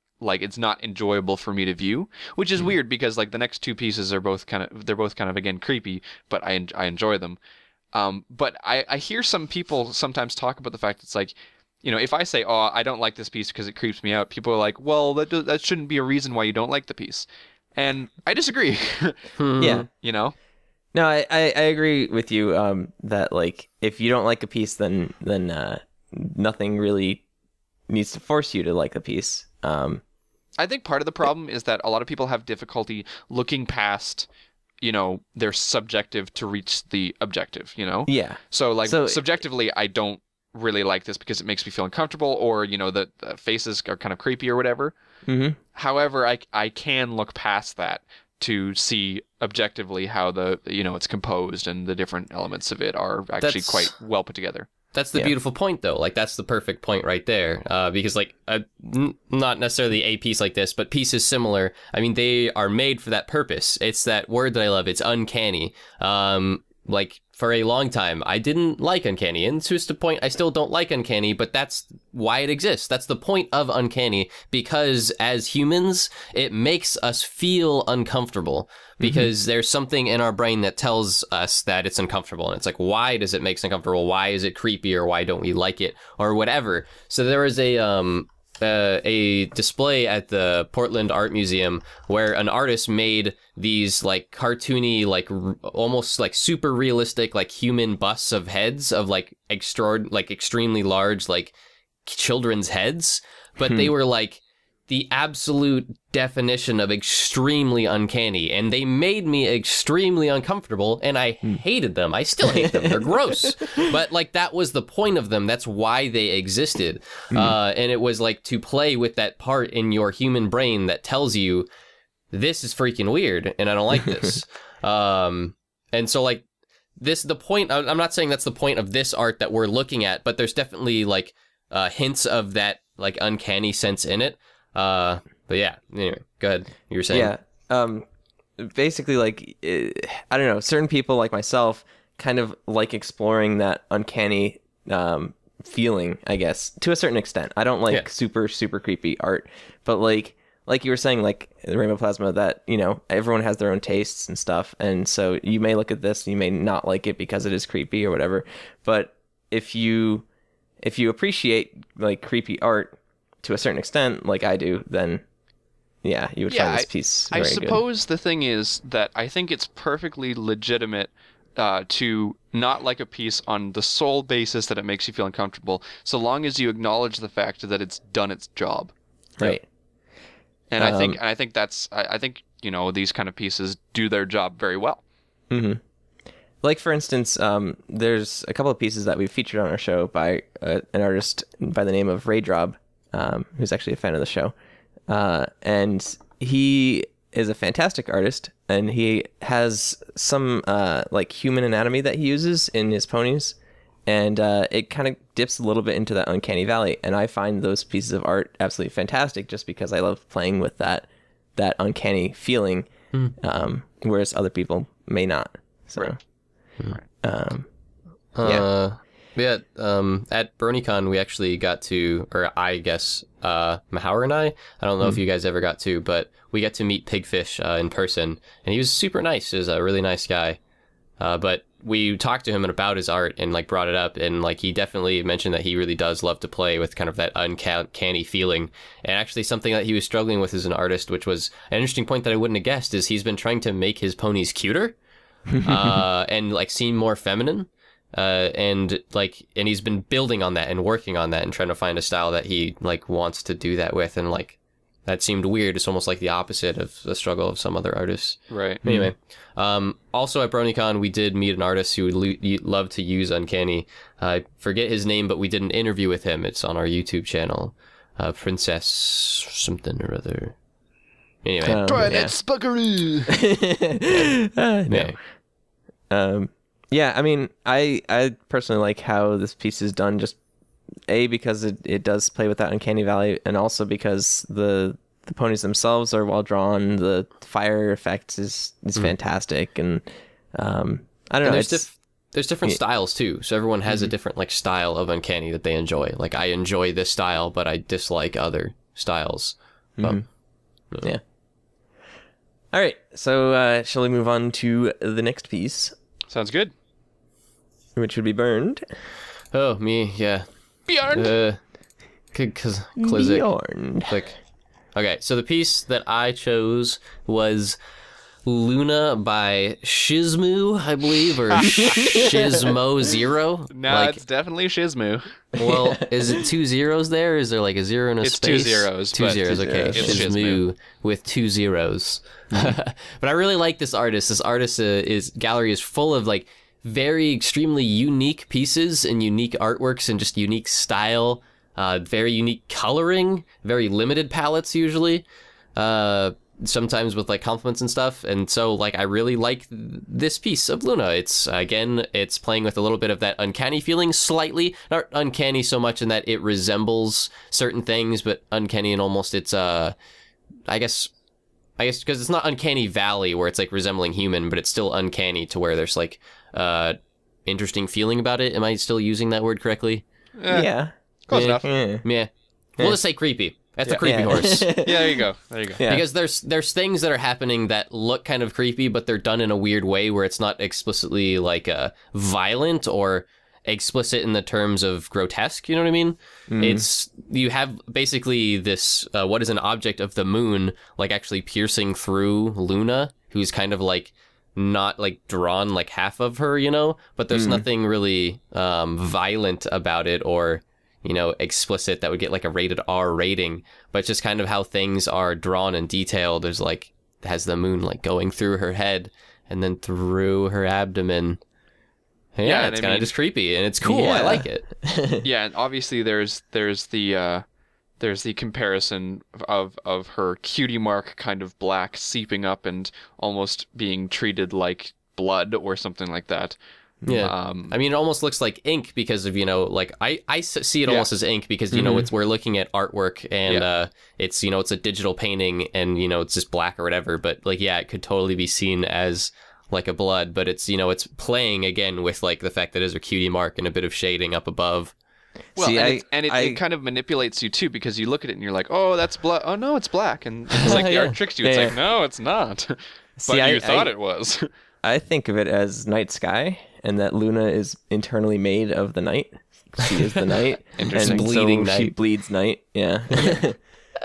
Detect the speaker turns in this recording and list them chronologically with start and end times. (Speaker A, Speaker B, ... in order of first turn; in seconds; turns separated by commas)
Speaker A: 0.2-7.4, Speaker A: 7.9-20.3, Speaker B: 19.4-19.9, Speaker C: 19.6-19.9, Speaker C: 20.9-27.2, Speaker C: 27.9-30.0, Speaker A: 30.6-34.3, Speaker A: 34.8-44.9, Speaker C: 38.1-39.2, Speaker C: 45.2-45.6, Speaker A: 45.7-54.7, Speaker B: 53.4-53.9, Speaker B: 54.9-101.5, Speaker C: 79.0-79.3, Speaker B: 102.0-121.7, Speaker C: 103.6-103.9, Speaker C: 112.4-113.9, Speaker B: 122.3-126.5, Speaker B: 127.0-137.3, Speaker C: 137.1-138.1, Speaker C: 138.6-160.3, Speaker C: 160.8-165.2, Speaker C: 166.0-167.8, Speaker A: 166.5-179.6, Speaker C: 179.4-179.7, Speaker A: 180.7-185.0, Speaker C: 180.8-181.2, Speaker C: 185.5-185.8, Speaker C: 186.6-194.5, Speaker C: 195.1-203.6, Speaker C: 204.1-216.2, Speaker C: 217.2-217.7, Speaker B: 218.3-230.6, Speaker B: 231.2-244.9, Speaker C: 245.5-246.0, Speaker B: 245.6-270.6, Speaker A: 258.5-258.8, Speaker C: 258.8-259.1, Speaker B: 271.4-271.9, Speaker C: 271.6-272.3, Speaker A: 271.8-273.3, Speaker C: 273.3-275.2, Speaker B: 274.9-275.2, Speaker C: 276.1-280.4, Speaker C: 281.1-290.0, Speaker C: 290.5-291.9, Speaker B: 291.4-300.2, Speaker C: 300.0-300.3, Speaker C: 302.7-305.9, Speaker A: 306.3-306.7, Speaker C: 307.9-308.8, Speaker B: 309.5-310.5, Speaker A: 310.9-311.3, Speaker B: 311.0-311.6, Speaker B: 312.3-313.4, Speaker C: 313.0-314.3, Speaker B: 314.9-317.8, Speaker B: 318.4-324.2, Speaker A: 321.6-321.9, Speaker C: 321.6-322.7, Speaker A: 323.7-325.3, Speaker C: 325.5-326.4, Speaker B: 325.6-359.9, Speaker A: 328.2-330.6, Speaker C: 329.5-330.2, Speaker B: 360.7-361.1, Speaker B: 361.8-370.0, Speaker A: 370.4-370.7, Speaker C: 370.5-370.9, Speaker A: 371.3-371.7, Speaker B: 371.3-374.7, Speaker C: 371.6-372.1, Speaker A: 373.9-375.8, Speaker C: 374.0-375.3, Speaker C: 375.8-376.0, Speaker B: 375.8-411.4, Speaker C: 386.5-386.8, Speaker C: 397.3-397.6, Speaker B: 412.3-414.6, Speaker A: 412.4-413.1, Speaker C: 413.8-415.2, Speaker A: 415.2-417.4, Speaker A: 418.0-426.6, Speaker B: 427.1-444.9, Speaker A: 427.2-427.7, Speaker C: 431.7-432.1, Speaker C: 445.6-446.6, Speaker A: 445.6-454.5, Speaker B: 450.6-451.1, Speaker C: 451.4-451.8, Speaker C: 453.2-453.9, Speaker C: 454.8-463.6, Speaker A: 460.8-461.2, Speaker B: 460.8-461.9